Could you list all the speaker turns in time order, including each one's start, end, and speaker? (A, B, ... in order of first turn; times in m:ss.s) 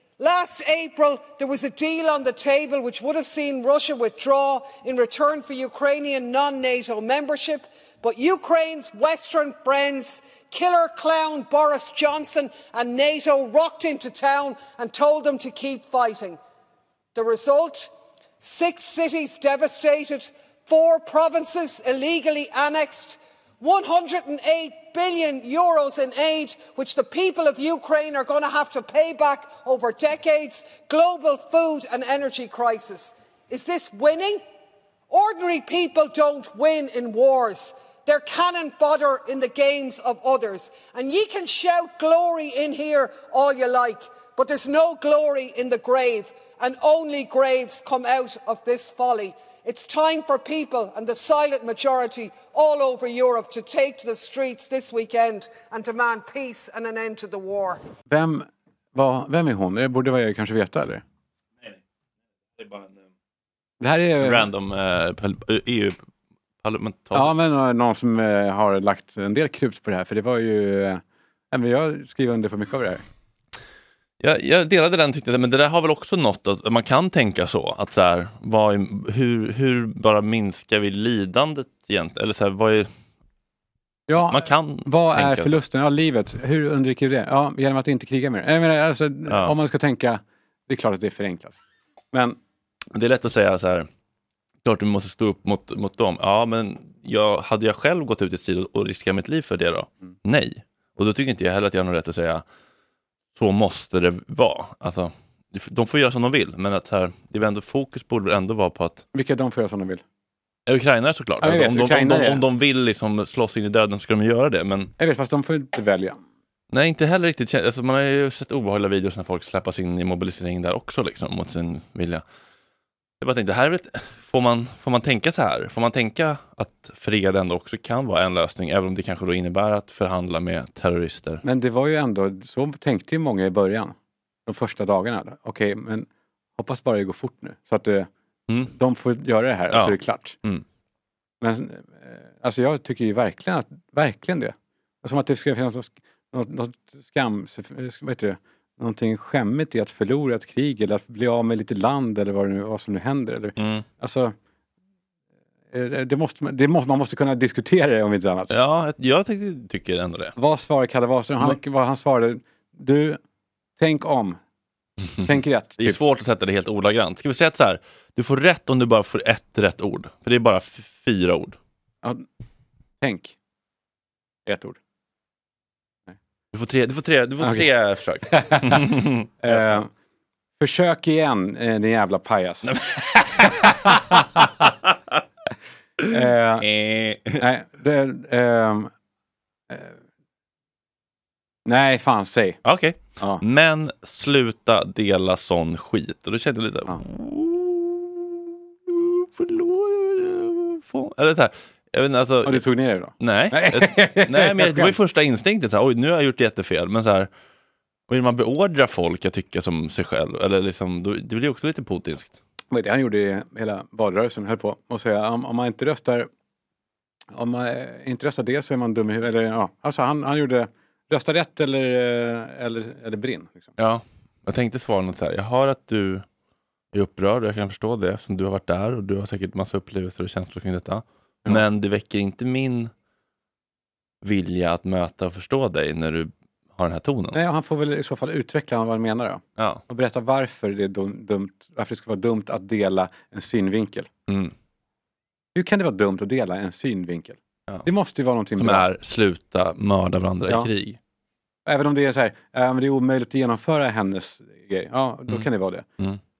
0:00.2-0:16.4 A
0:17.1-0:17.9 A
0:18.4-0:34.4 A
0:35.1-0:57.8 A
0:58.1-1:01.0 B
1:02.6-1:02.9 C
1:03.8-1:04.5 B
1:04.2-1:06.0 C
1:06.6-1:07.3 C
1:07.1-1:13.0 B
1:14.2-1:22.9 C
1:24.1-1:31.6 B
1:24.3-1:25.6 C
1:29.3-1:29.5 C
1:32.1-1:32.4 B
1:32.9-1:33.9 C
1:34.6-1:42.4 C
1:43.3-1:49.0 C
1:49.1-1:50.0 B
1:50.7-1:54.9 C
1:51.4-1:52.4 B
1:55.0-1:56.2 B
1:56.7-2:02.2 C
2:03.2-2:11.4 C
2:11.4-2:13.9 B
2:14.4-2:18.1 B
2:18.7-2:20.4 B
2:19.7-2:20.6 C
2:21.4-2:34.3 B
2:33.6-2:33.8 C
2:35.7-2:38.5 B
2:38.5-2:40.3 C
2:40.4-2:43.2 B
2:43.8-2:44.4 B
2:45.1-2:51.6 C
2:45.2-2:46.0 B
2:53.0-2:53.3 B
2:54.4-2:54.8 B
2:56.5-2:59.8 C
2:58.3-2:58.9 B
2:59.4-2:59.9 B
3:00.6-3:02.7 B
3:02.8-3:04.7 C
3:03.5-3:04.5 B
3:06.1-3:06.6 B
3:06.6-3:07.4 C
3:07.4-3:08.9 B
3:09.7-3:09.9 B
3:11.6-3:12.6 B
3:12.6-3:22.6 C
3:22.4-3:24.9 B
3:23.2-3:27.3 C
3:28.1-3:32.4 C
3:32.7-3:36.3 B
3:37.3-3:43.7 B
3:43.8-3:46.2 C
3:46.9-3:52.9 C
3:54.2-3:57.4 C
3:57.3-4:04.1 B
3:59.6-3:59.8 C
4:04.3-4:04.5 C
4:05.5-4:08.8 B
4:08.6-4:11.0 C
4:11.6-4:15.8 B